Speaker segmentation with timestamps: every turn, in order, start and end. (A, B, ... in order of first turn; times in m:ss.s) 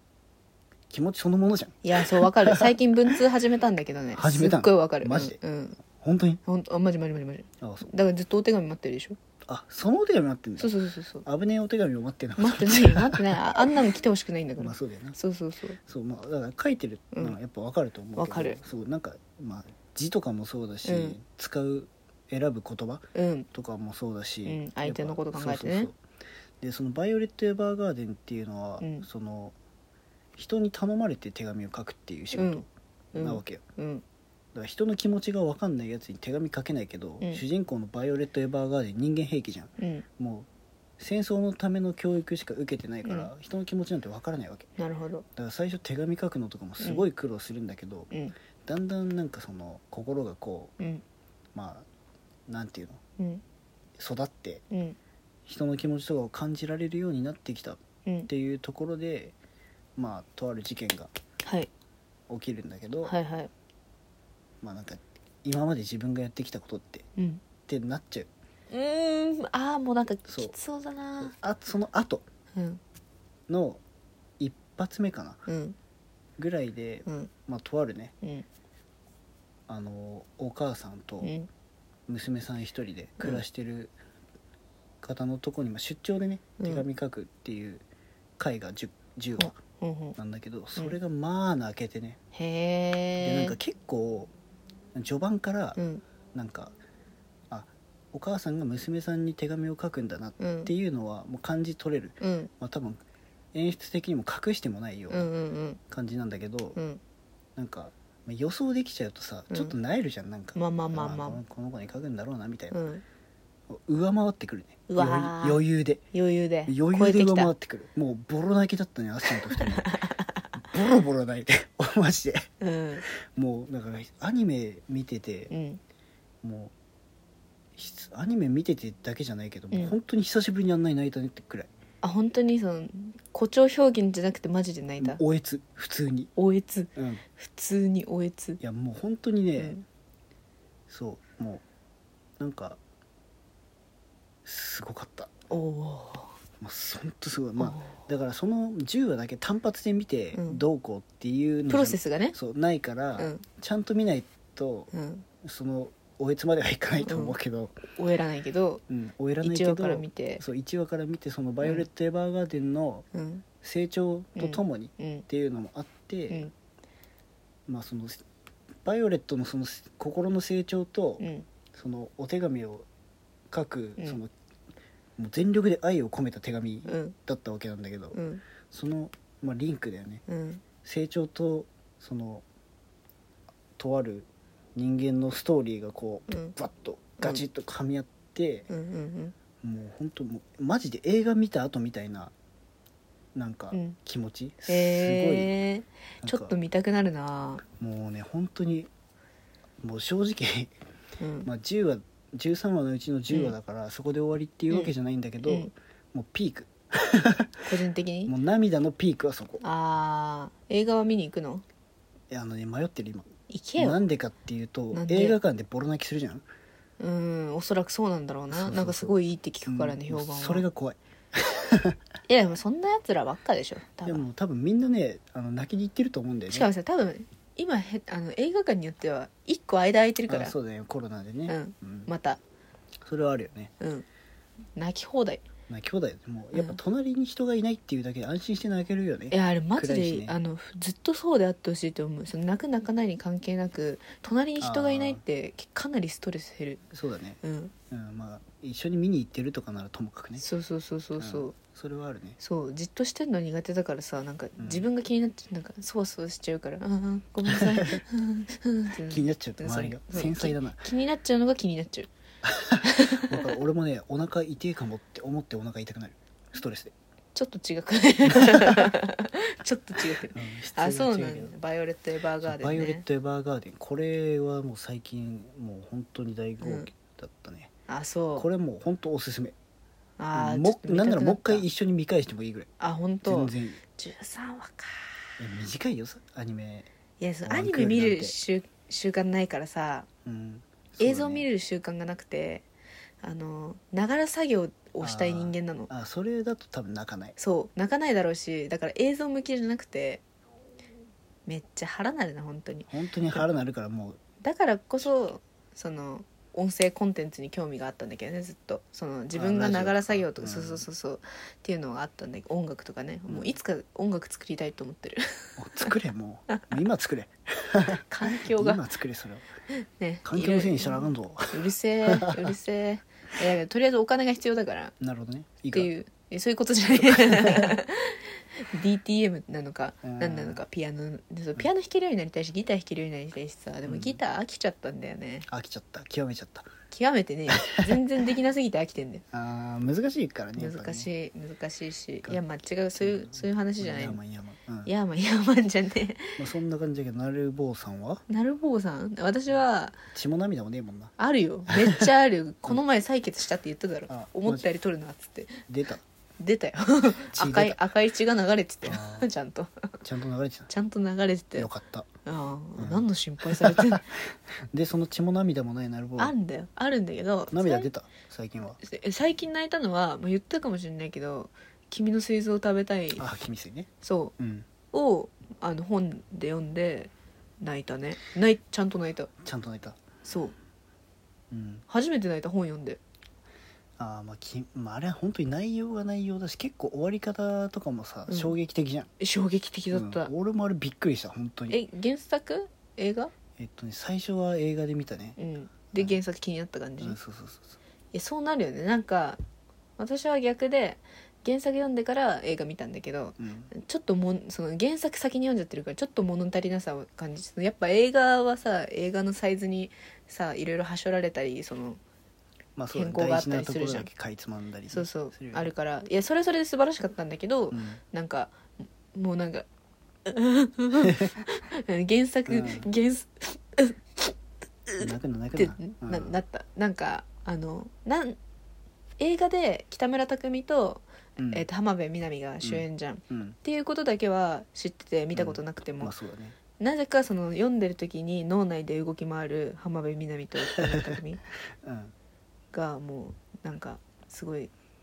0:00.9-0:02.7 A
0:01.8-0:05.8 B
0:04.1-0:05.4 A
0:06.0-0:06.4 A
0:06.5-0:09.2 B
0:07.6-0:07.9 A
0:09.5-0:13.7 A
0:10.6-0:11.2 B
0:12.4-0:15.8 B
0:14.6-0:15.2 A
0:15.9-0:26.0 A
0:18.2-0:18.6 B
0:20.8-0:21.2 B
0:23.2-0:23.5 B
0:24.5-0:25.9 B
0:26.6-0:29.6 A
0:28.8-0:29.1 B
0:30.4-0:33.6 A
0:32.3-0:34.0 B
0:34.5-0:40.5 A
0:39.8-0:40.0 B
0:41.0-0:44.7 A
0:43.0-0:43.3 B
0:44.8-0:45.2 B
0:45.4-0:48.1 A
0:48.6-0:50.7 A
0:51.5-0:51.9 A
0:52.5-0:53.0 A
0:54.0-0:54.6 A
0:54.7-0:55.0 B
0:55.5-0:59.3 A
1:00.0-1:01.1 A
1:02.3-1:03.2 A
1:03.0-1:03.5 B
1:04.6-1:07.1 A
1:07.2-1:07.4 B
1:07.7-1:08.3 A
1:08.7-1:11.3 B
1:10.3-1:10.6 A
1:11.2-1:12.2 A
1:12.6-1:12.8 B
1:13.5-1:13.8 A
1:14.4-1:15.4 A
1:15.5-1:15.8 B
1:16.4-1:18.1 A
1:17.1-1:17.3 B
1:19.7-1:21.3 A
1:21.2-1:21.5 B
1:22.1-1:24.0 A
1:25.0-1:27.8 A
1:28.4-1:29.6 A
1:29.4-1:30.2 B
1:30.2-1:32.2 A
1:32.3-1:33.6 B
1:33.2-1:34.3 A
1:34.9-1:35.8 A
1:35.8-1:36.0 B
1:36.3-1:36.7 A
1:37.5-1:43.0 A
1:40.4-1:40.7 B
1:42.2-1:42.5 B
1:43.5-1:45.3 A
1:45.1-1:45.8 B
1:45.9-1:46.8 A
1:47.6-1:52.8 A
1:50.6-1:51.4 B
1:52.7-1:53.0 B
1:53.7-1:56.1 A
1:54.9-1:57.5 B
1:56.7-1:59.9 A
1:59.5-2:00.4 B
2:00.6-2:02.4 A
2:02.6-2:03.0 B
2:03.3-2:05.5 A
2:05.5-2:05.8 B
2:06.4-2:06.7 A
2:07.8-2:11.7 A
2:12.0-2:15.2 B
2:15.0-2:16.3 A
2:16.4-2:18.6 B
2:17.0-2:17.2 A
2:18.6-2:19.8 A
2:19.6-2:19.8 B
2:20.9-2:21.6 A
2:22.4-2:22.8 A
2:24.4-2:25.3 A
2:25.5-2:26.4 B
2:26.6-2:34.9 A
2:27.6-2:28.0 B
2:30.4-2:30.6 B
2:31.7-2:32.4 B
2:33.2-2:33.4 B
2:34.9-2:35.2 B
2:35.4-2:37.8 A
2:37.0-2:37.4 B
2:38.0-2:38.8 B
2:38.9-2:43.1 A
2:39.4-2:40.4 B
2:41.6-2:41.9 B
2:43.1-2:43.4 B
2:43.6-2:46.5 A
2:44.4-2:45.2 B
2:47.7-2:48.2 A
2:48.8-2:52.9 A
2:51.2-2:51.5 B
2:53.5-2:54.3 A
2:55.2-3:00.2 A
2:56.9-2:57.1 B
2:58.1-2:58.4 B
3:00.3-3:00.6 B
3:00.8-3:02.4 A
3:03.8-3:08.7 A
3:06.3-3:06.6 B
3:08.7-3:09.3 B
3:09.6-3:12.3 A
3:13.4-3:15.6 A
3:14.7-3:17.6 B
3:16.2-3:16.6 A
3:17.8-3:18.9 A
3:19.8-3:20.7 A
3:21.2-3:21.5 B
3:21.4-3:27.7 A
3:25.4-3:25.7 B
3:27.7-3:28.3 B
3:28.2-3:29.6 A
3:29.6-3:31.6 B
3:32.3-3:36.4 A
3:33.5-3:34.0 B
3:34.9-3:35.4 B
3:37.0-3:40.7 B
3:38.5-3:42.0 A
3:42.3-3:44.2 B
3:44.0-3:46.7 A
3:46.5-3:50.6 B
3:50.3-3:52.1 A
3:51.5-3:52.4 B
3:53.0-3:53.7 A
3:53.8-3:54.0 B
3:54.8-3:55.4 B
3:55.7-4:00.4 A
3:56.5-3:56.8 B
3:59.3-4:06.8 B
4:04.6-4:05.2 A
4:06.9-4:07.4 A
4:07.4-4:07.7 B
4:07.9-4:10.4 A
4:10.4-4:11.6 B
4:11.2-4:12.4 A
4:12.4-4:22.1 B
4:14.6-4:14.9 A
4:17.5-4:18.0 A
4:19.1-4:20.8 A
4:22.4-4:26.9 A
4:22.8-4:23.5 B
4:27.4-4:33.0 B
4:30.1-4:31.6 A
4:32.4-4:37.7 A
4:36.6-4:36.9 B
4:37.9-4:38.5 B
4:38.4-4:39.6 A
4:40.2-4:41.7 B
4:40.3-4:42.7 A
4:42.8-4:45.3 B
4:43.2-4:43.8 A
4:45.4-4:46.9 A
4:47.2-4:50.1 B
4:47.4-4:48.4 A
4:50.2-4:51.5 A
4:51.0-4:52.6 B
4:53.2-4:55.9 B
4:55.0-4:57.4 A
4:57.4-5:00.2 B
5:01.5-5:03.4 B
5:02.9-5:04.2 A
5:04.4-5:15.9 B
5:09.3-5:10.9 A
5:13.3-5:13.6 A
5:15.6-5:19.4 A
5:18.1-5:18.8 B
5:19.7-5:24.9 B
5:20.2-5:22.5 A
5:25.0-5:25.9 A
5:25.7-5:35.5 B
5:27.0-5:27.8 A
5:30.0-5:30.6 A
5:33.8-5:34.2 A
5:35.5-5:36.7 A
5:36.9-5:39.2 B
5:37.5-5:38.0 A
5:39.3-5:41.1 A
5:40.6-5:44.2 B
5:42.9-5:44.9 A
5:44.9-5:46.4 B
5:46.4-5:48.2 A
5:48.3-5:50.0 B
5:50.1-5:51.1 A
5:51.2-5:55.6 B
5:51.7-5:52.1 A
5:54.1-5:54.7 A
5:55.7-5:56.0 A
5:56.4-5:59.9 B
5:57.2-5:57.8 A
5:58.8-5:59.3 A
6:00.0-6:00.7 A
6:00.7-6:01.7 B
6:01.6-6:02.1 A
6:02.2-6:04.1 B
6:02.8-6:06.3 A
6:06.2-6:07.9 B
6:07.5-6:08.8 A
6:08.8-6:13.2 B
6:13.2-6:14.7 A
6:14.0-6:14.3 B
6:14.9-6:19.3 B
6:19.4-6:20.0 A
6:20.2-6:20.5 B
6:21.5-6:21.8 A
6:21.9-6:23.0 B
6:24.0-6:29.1 A
6:28.3-6:28.5 B
6:29.2-6:30.3 B
6:29.9-6:31.8 A
6:31.7-6:33.3 B
6:33.6-6:35.4 A
6:35.4-6:37.2 B
6:37.0-6:37.8 A
6:38.1-6:39.4 B
6:40.0-6:52.0 B
6:43.4-6:43.7 A
6:52.8-6:55.7 A
6:52.9-6:54.1 B
6:54.9-6:59.6 B
6:57.7-6:58.0 A
7:00.2-7:04.3 B
7:01.0-7:01.3 A
7:02.5-7:02.9 A
7:04.9-7:08.4 B
7:05.0-7:06.4 A
7:09.2-7:16.1 B
7:11.4-7:11.7 A
7:12.6-7:13.6 A
7:15.3-7:16.6 A
7:16.8-7:21.4 B
7:21.8-7:22.1 A
7:22.7-7:24.7 B